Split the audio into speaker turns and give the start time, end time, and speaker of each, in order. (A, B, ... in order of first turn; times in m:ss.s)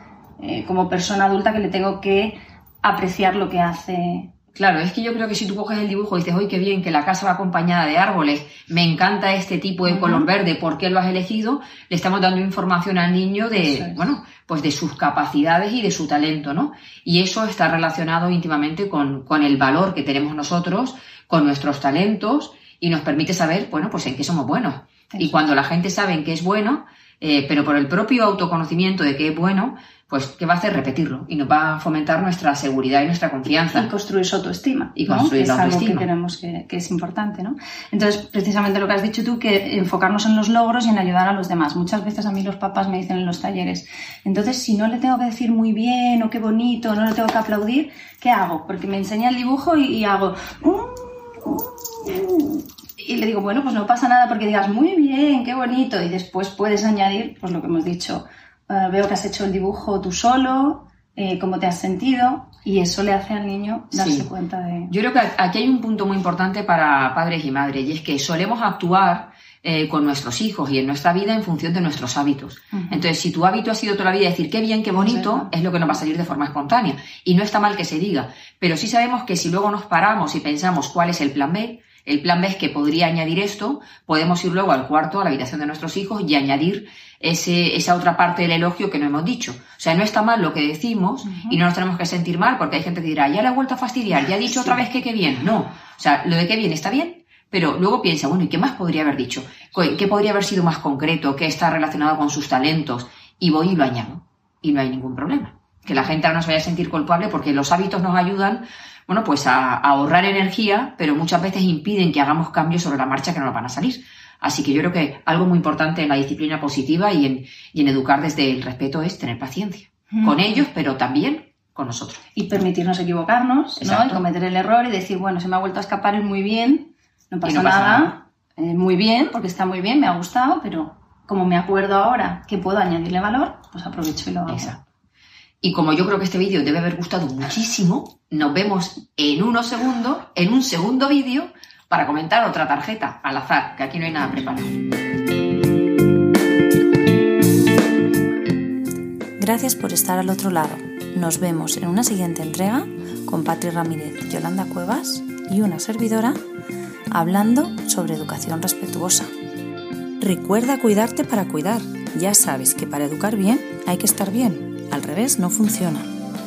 0:00.4-0:04.3 A
0:04.6-0:33.9 B
0:09.9-0:10.3 A
0:13.6-0:14.0 A
0:25.1-0:25.4 A
0:33.7-1:04.9 A
0:35.0-0:36.1 B
1:03.9-1:04.3 B
1:04.9-2:02.2 B
1:12.7-1:13.1 A
1:15.0-1:15.5 A
1:31.3-1:31.6 A
2:00.1-2:00.6 A
2:02.4-2:14.7 A
2:03.8-2:04.2 B
2:07.4-2:08.2 B
2:14.5-2:14.8 B
2:15.6-2:24.8 B
2:29.4-2:36.4 C
2:37.1-2:39.3 C
2:40.2-2:46.1 C